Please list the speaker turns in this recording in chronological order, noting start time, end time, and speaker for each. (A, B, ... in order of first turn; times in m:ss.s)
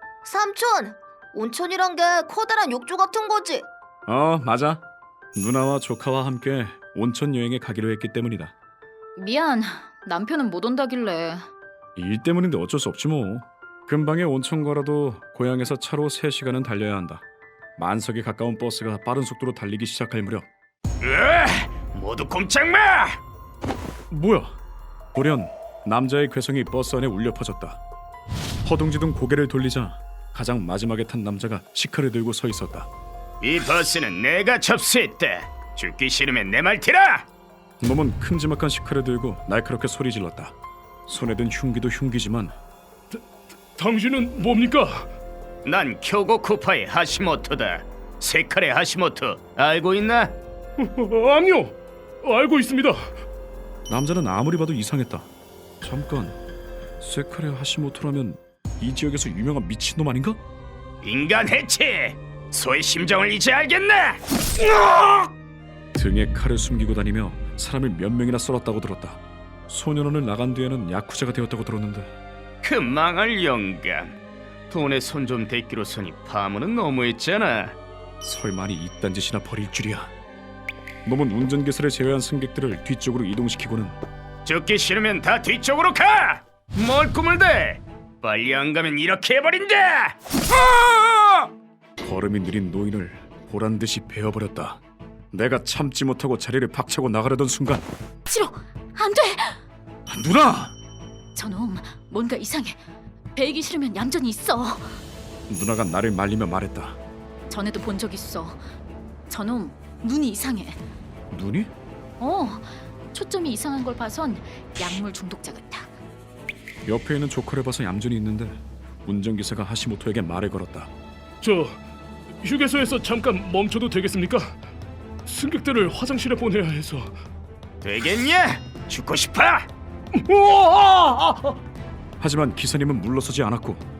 0:00.2-0:03.7 A
0:04.1-0:04.8 B
0:05.4-0:08.5 B
0:09.2-0:11.4 C
0:12.0-0:17.2 B
0:17.8-0:20.5 B
0:21.0-0:23.2 D
0:24.1-0:24.6 B
0:25.1-0:27.8 B
0:28.6-0:32.9 B
0:33.4-0:37.3 D
0:37.8-0:40.6 B
0:41.1-0:42.6 B
0:43.8-0:45.1 E
0:45.6-0:50.4 D
0:50.8-0:53.1 E
0:53.9-0:55.3 B
0:55.8-0:56.4 B
0:57.0-1:00.4 B
1:01.0-1:05.3 D
1:05.9-1:12.1 B
1:12.6-1:14.2 D
1:14.7-1:17.8 D
1:18.2-1:20.1 B
1:21.0-1:24.0 B
1:24.4-1:30.2 D
1:30.5-1:31.5 B
1:32.0-1:34.8 B
1:35.3-1:37.9 B
1:38.3-1:39.6 C
1:40.1-1:40.7 B
1:41.4-1:42.8 C
1:43.4-1:45.0 C
1:45.5-1:47.0 B
1:47.5-1:48.6 C
1:49.3-1:50.8 C
1:51.3-1:51.7 B
1:52.2-1:55.9 C
1:56.9-2:00.9 B
2:01.4-2:01.8 E
2:02.4-2:04.6 E
2:05.3-2:07.1 E
2:07.8-2:09.7 D
2:10.1-2:11.6 E
2:12.2-2:13.8 B